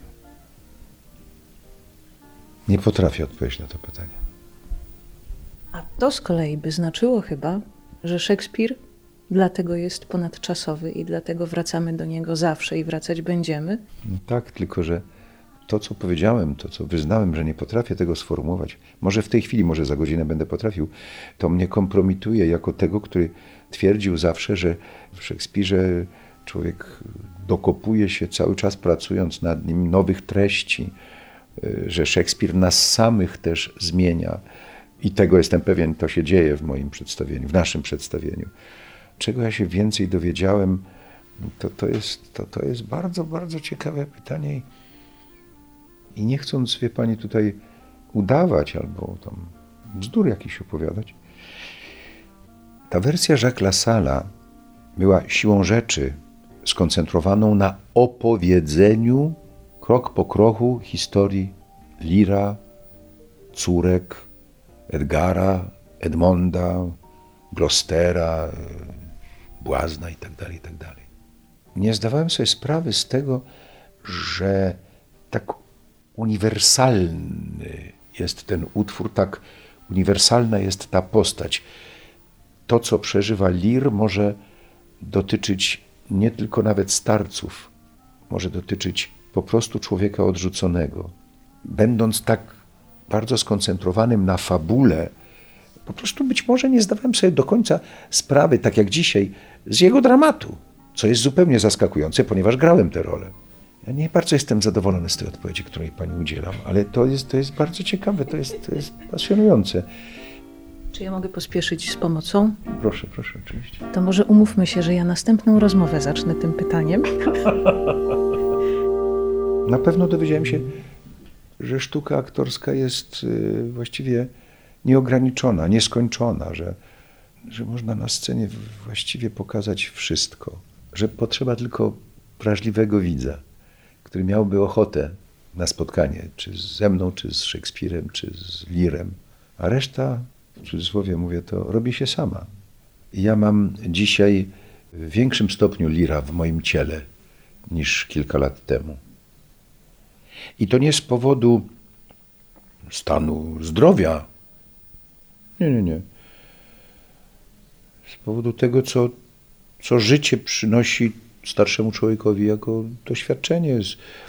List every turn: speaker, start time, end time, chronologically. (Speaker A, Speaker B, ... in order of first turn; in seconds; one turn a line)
Speaker A: 2.7-4.2
Speaker B: 5.7-8.8
Speaker B: 9.3-13.8
Speaker A: 14.0-15.0
Speaker A: 15.7-30.9
Speaker A: 31.6-34.4
Speaker A: 35.0-38.5
Speaker A: 39.2-40.9
Speaker A: 41.4-44.6
Speaker A: 46.1-47.6
Speaker A: 48.1-51.1
Speaker A: 52.9-54.3
Speaker A: 55.0-62.6
Speaker A: 63.5-64.3
Speaker A: 64.9-66.9
Speaker A: 67.5-68.9
Speaker A: 69.6-71.0
Speaker A: 71.7-73.4
Speaker A: 74.0-75.6
Speaker A: 76.1-81.6
Speaker A: 82.7-84.4
Speaker A: 85.0-87.7
Speaker A: 88.3-91.1
Speaker A: 91.6-95.1
Speaker A: 95.8-103.3
Speaker A: 103.8-109.9
Speaker B: 110.9-112.6
Speaker A: 112.7-113.8
Speaker B: 113.9-117.5
Speaker A: 119.7-120.7
Speaker A: 121.6-124.3
Speaker A: 124.8-126.8
Speaker A: 127.4-133.4
Speaker A: 134.0-142.5
Speaker A: 143.1-147.0
Speaker A: 147.7-149.0
Speaker A: 150.6-151.7
Speaker A: 152.9-154.2
Speaker A: 155.6-156.0
Speaker A: 158.1-159.1
Speaker A: 159.8-164.0